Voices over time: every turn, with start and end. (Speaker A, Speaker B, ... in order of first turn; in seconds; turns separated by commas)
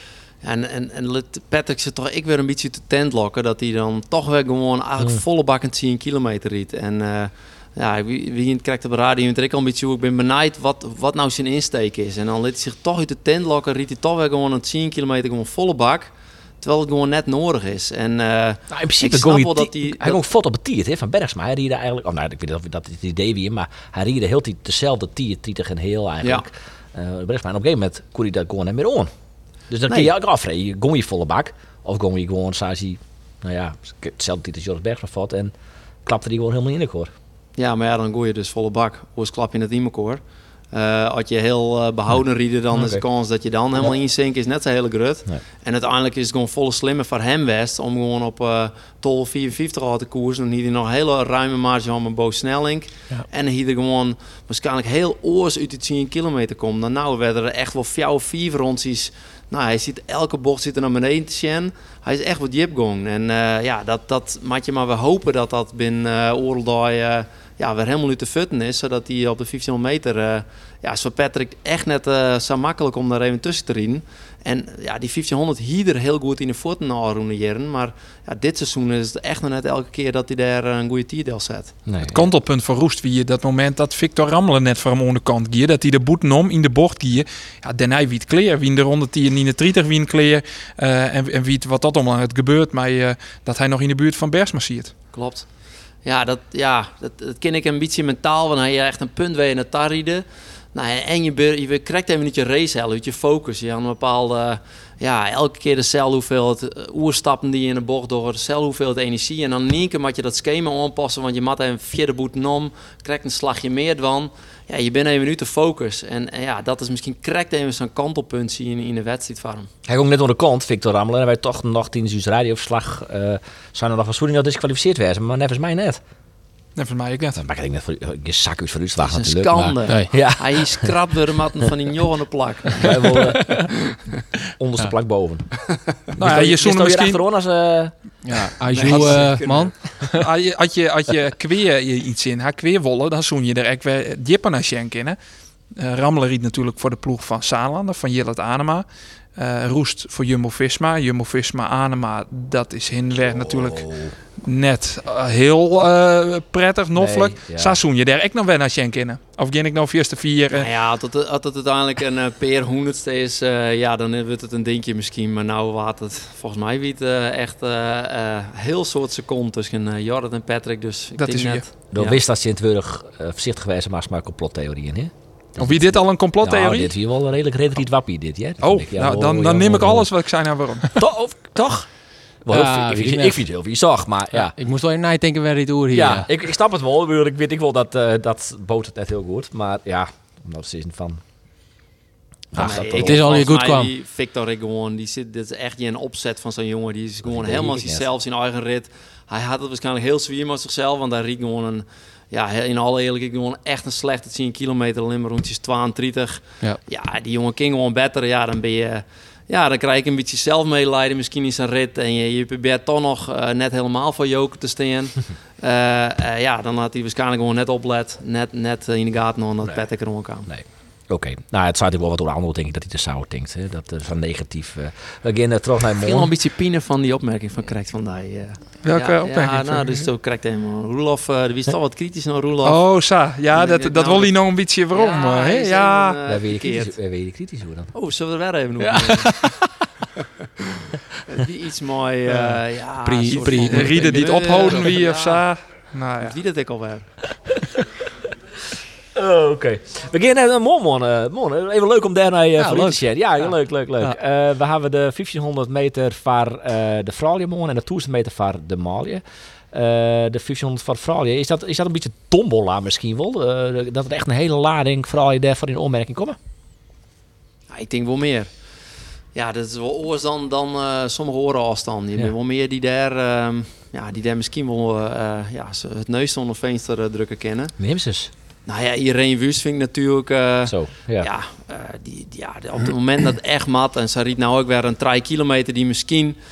Speaker A: 0.4-20.2, Speaker B: 18.7-29.1, Speaker B: 29.7-37.1, Speaker A: 37.5-81.8, Speaker B: 42.7-43.0, Speaker B: 81.8-82.2, Speaker C: 82.1-94.9, Speaker A: 95.1-119.7, Speaker B: 119.8-126.0, Speaker C: 126.8-127.4, Speaker B: 127.4-130.9, Speaker A: 129.0-133.6, Speaker B: 132.8-133.8, Speaker B: 134.6-137.9, Speaker C: 136.1-137.2, Speaker D: 138.2-140.2, Speaker A: 138.7-139.8, Speaker C: 138.8-139.3, Speaker C: 139.9-145.2, Speaker C: 145.7-160.7, Speaker B: 153.3-154.2, Speaker B: 156.9-157.8, Speaker A: 160.5-172.2, Speaker C: 171.2-171.7, Speaker B: 171.9-180.1, Speaker C: 175.6-176.9, Speaker C: 178.6-181.0, Speaker B: 180.9-184.5, Speaker D: 182.5-183.4, Speaker D: 184.4-186.3, Speaker B: 185.9-191.2, Speaker B: 192.5-193.3, Speaker D: 192.5-193.9, Speaker A: 192.6-220.5, Speaker B: 197.2-198.1, Speaker B: 219.6-226.3, Speaker A: 226.0-237.0, Speaker C: 228.8-230.1, Speaker C: 232.6-236.1, Speaker B: 236.2-237.9, Speaker A: 237.9-239.4, Speaker A: 241.2-245.5, Speaker D: 242.3-244.7, Speaker C: 243.3-246.3, Speaker A: 246.2-247.1, Speaker B: 249.1-266.4, Speaker D: 252.6-253.0, Speaker A: 267.7-268.7, Speaker A: 269.3-277.7, Speaker B: 277.8-278.3, Speaker A: 278.6-286.4, Speaker B: 280.6-281.3